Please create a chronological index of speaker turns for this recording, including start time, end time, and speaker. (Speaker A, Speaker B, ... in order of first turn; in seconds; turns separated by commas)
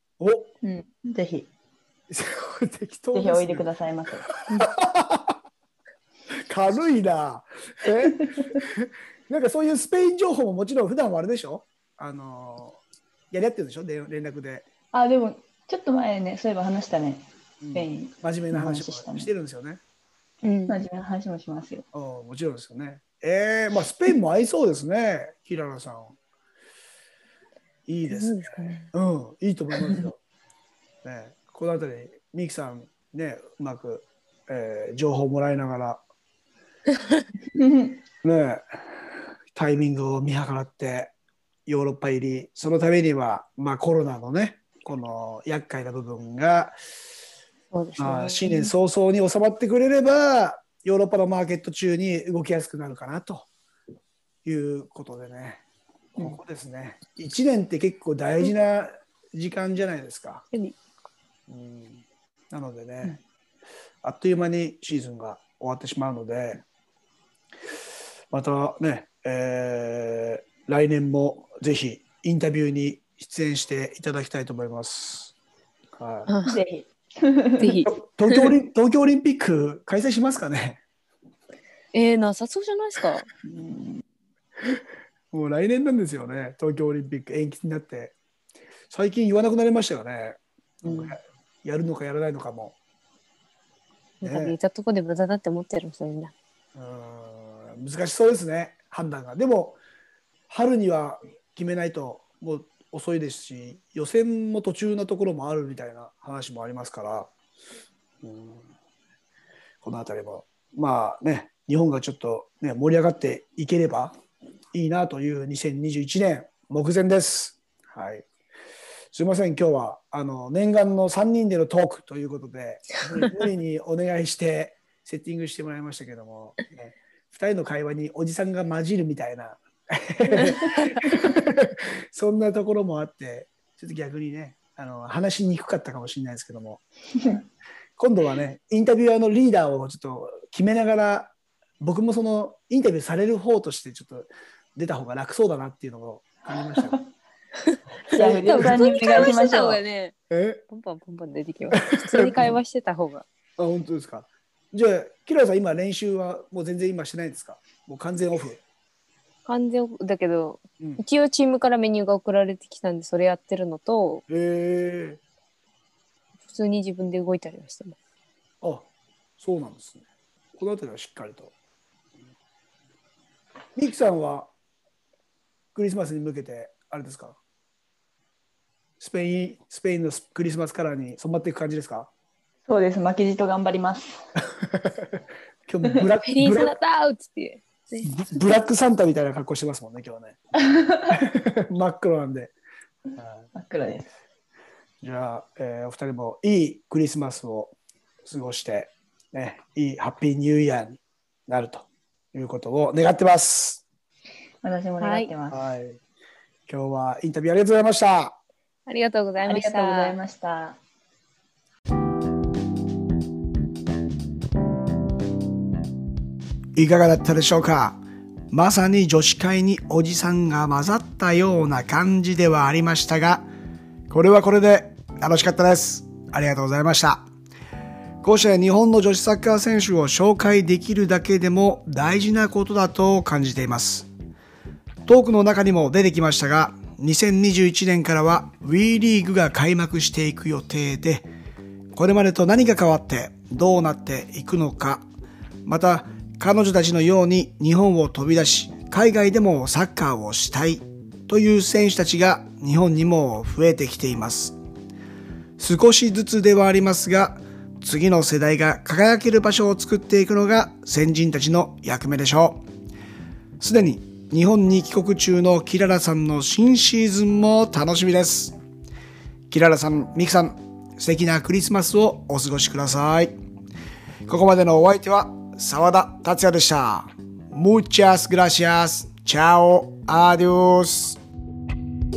Speaker A: 0.2-0.5, Speaker B: 0.6-1.5, Speaker A: 2.1-3.7, Speaker B: 3.1-4.7, Speaker A: 4.5-5.4, Speaker A: 6.3-14.7, Speaker B: 8.0-8.6, Speaker B: 14.9-19.3, Speaker A: 17.6-19.8, Speaker C: 20.4-20.8, Speaker B: 20.7-21.9, Speaker A: 21.9-26.2, Speaker A: 27.9-30.2, Speaker C: 28.1-28.9, Speaker B: 29.8-30.1, Speaker A: 31.0-36.0, Speaker B: 37.5-38.0, Speaker A: 38.2-38.6, Speaker A: 39.5-41.1, Speaker A: 41.7-46.8, Speaker C: 47.7-48.7, Speaker A: 48.0-53.5, Speaker A: 54.5-55.6, Speaker A: 56.2-60.5, Speaker A: 61.5-63.2, Speaker A: 64.0-66.6, Speaker A: 68.3-75.3, Speaker A: 76.0-76.3, Speaker C: 76.3-76.6, Speaker B: 76.5-77.8, Speaker C: 77.6-78.5, Speaker A: 77.9-80.8, Speaker C: 81.9-83.3, Speaker B: 83.4-84.0, Speaker A: 85.3-88.2, Speaker A: 88.9-92.8, Speaker B: 90.8-91.2, Speaker C: 94.2-96.3, Speaker A: 94.2-94.6, Speaker A: 96.8-99.8, Speaker A: 100.5-107.3, Speaker A: 108.2-108.7, Speaker A: 109.8-114.2, Speaker A: 114.7-118.3, Speaker A: 119.1-137.3, Speaker A: 138.0-147.0, Speaker B: 146.5-147.1, Speaker C: 147.6-150.2, Speaker A: 148.1-149.3, Speaker B: 148.1-149.8, Speaker A: 150.3-150.6, Speaker C: 150.7-153.2, Speaker A: 151.7-152.6, Speaker A: 153.6-158.6, Speaker C: 159.5-164.2, Speaker A: 164.3-165.2, Speaker C: 166.5-168.0, Speaker A: 168.6-168.9, Speaker A: 169.4-171.5, Speaker A: 173.8-174.5, Speaker A: 175.8-177.4, Speaker A: 179.0-182.1, Speaker B: 182.7-184.3, Speaker A: 184.6-186.8, Speaker B: 185.8-186.1, Speaker C: 186.2-188.1, Speaker A: 188.0-190.4, Speaker B: 190.6-191.2, Speaker A: 191.1-192.5, Speaker B: 193.5-194.1, Speaker A: 195.0-203.8, Speaker B: 204.6-205.6, Speaker C: 205.0-205.3, Speaker A: 205.5-206.0, Speaker A: 206.7-208.4, Speaker C: 208.9-210.2, Speaker B: 209.4-210.8, Speaker A: 216.8-218.0, Speaker A: 218.5-223.5, Speaker A: 224.1-227.3, Speaker A: 228.2-234.1, Speaker A: 235.1-241.3, Speaker A: 241.9-245.1, Speaker A: 245.7-254.6, Speaker A: 255.6-262.6, Speaker A: 263.6-268.6, Speaker A: 269.5-273.4, Speaker A: 274.3-281.2